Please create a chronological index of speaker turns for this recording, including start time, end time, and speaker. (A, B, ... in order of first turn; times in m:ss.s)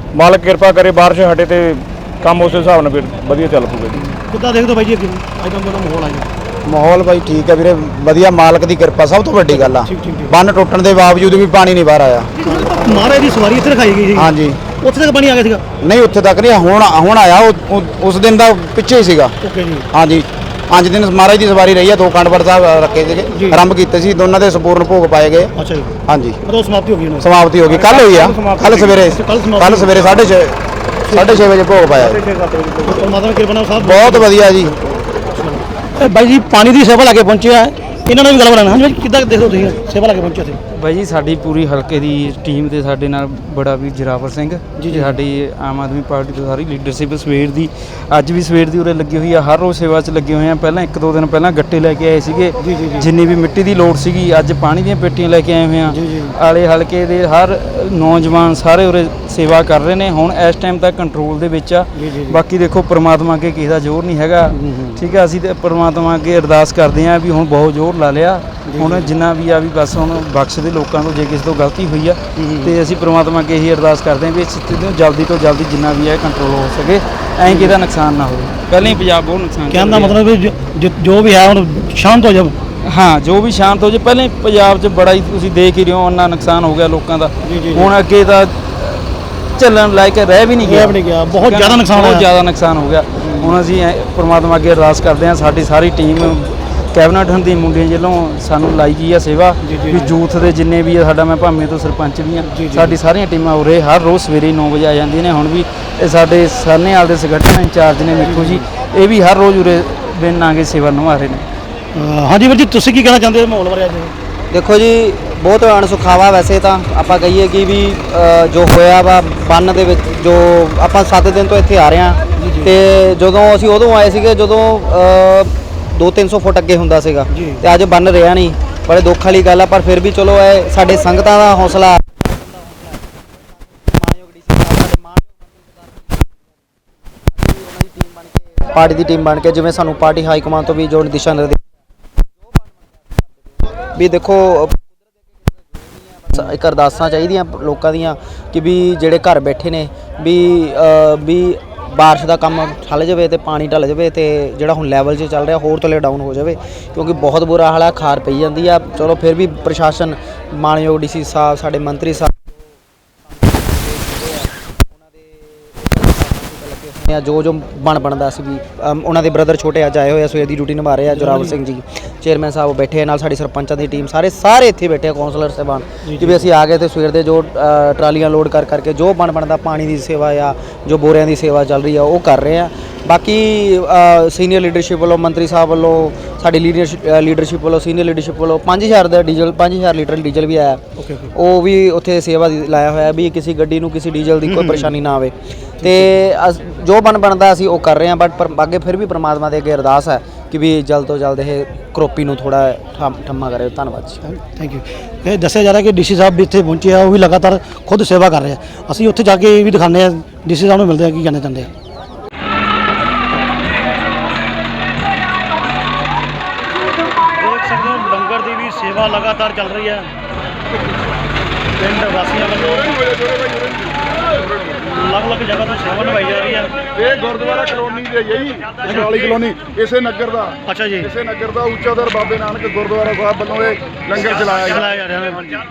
0:00.1-0:04.0 A
0:04.1-0:06.3 B
0:06.6-0:12.3 C
0:09.5-0:10.4 B
0:12.4-0:15.6 B
0:14.2-0:14.6 C
0:15.8-0:19.4 C
0:19.4-0:19.9 B
0:19.9-0:25.5 C
0:23.3-0:23.6 B
0:25.6-0:30.3 B
0:26.1-0:26.4 C
0:27.2-0:32.2 C
0:31.0-0:31.4 B
0:32.2-0:34.5 B
0:33.8-0:34.8 C
0:35.3-0:40.6 B
0:40.7-1:20.2 D
0:44.8-0:45.1 B
0:52.6-0:53.1 B
0:55.9-0:56.4 B
1:02.0-1:02.4 B
1:04.5-1:05.0 B
1:08.7-1:09.1 B
1:12.4-1:12.8 B
1:17.5-1:17.8 B
1:19.7-1:22.6 B
1:22.8-1:51.5 D
1:27.4-1:27.9 B
1:30.6-1:32.3 B
1:33.2-1:33.5 B
1:39.6-1:40.1 B
1:42.4-1:43.0 B
1:48.2-1:48.6 B
1:51.9-1:54.1 B
1:54.5-2:16.4 E
2:02.4-2:02.7 B
2:07.3-2:07.6 B
2:17.3-2:21.7 E
2:22.5-2:25.0 E
2:25.7-2:42.6 E
2:43.3-3:10.8 E
2:51.1-2:51.5 B
2:56.0-2:56.4 B
3:11.0-3:11.3 B
3:11.3-3:24.2 E
3:14.4-3:14.9 B
3:24.2-3:31.7 B
3:37.4-3:40.1 B
3:41.8-3:43.0 B
3:43.0-3:43.9 F
3:44.8-3:46.8 B
3:47.0-3:50.6 F
3:48.8-3:49.4 B
3:50.7-3:51.1 B
3:51.1-3:54.8 F
3:54.2-3:55.6 B